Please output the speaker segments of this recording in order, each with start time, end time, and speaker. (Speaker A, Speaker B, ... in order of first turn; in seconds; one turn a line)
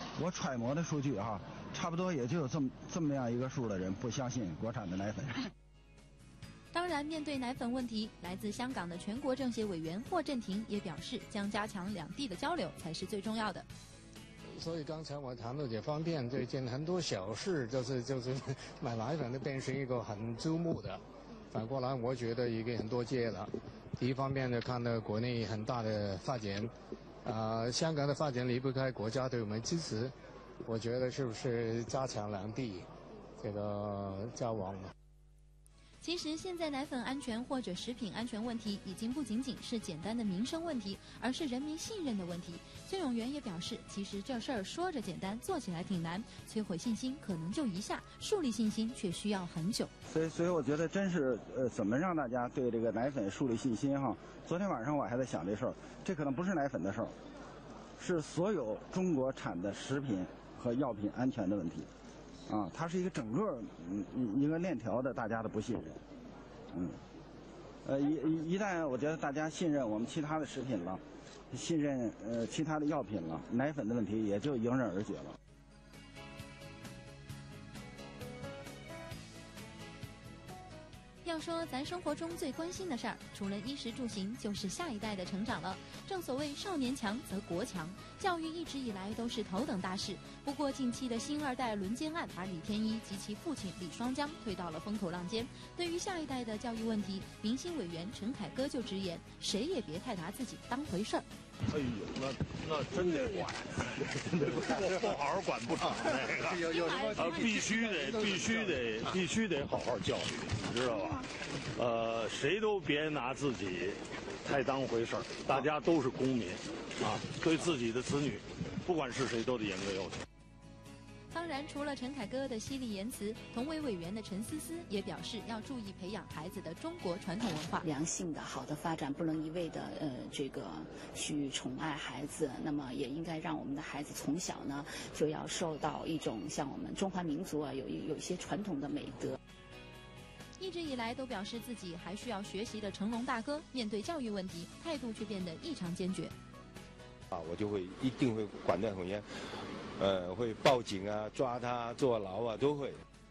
Speaker A: 0.2-5.4
Speaker B: 6.7-13.7
Speaker C: 14.6-26.7
Speaker C: 27.2-30.1
Speaker C: 30.6-32.9
Speaker C: 33.4-34.9
Speaker B: 36.0-49.9
Speaker A: 50.1-57.1
Speaker A: 58.0-61.9
Speaker A: 62.5-66.0
Speaker A: 66.7-67.0
Speaker A: 67.8-75.4
Speaker B: 81.2-101.2
Speaker D: 101.7-120.2
Speaker B: 121.3-127.9
Speaker E: 127.8-139.4
Speaker B: 140.6-146.3
Speaker F: 147.3-149.3
Speaker F: 150.0-153.0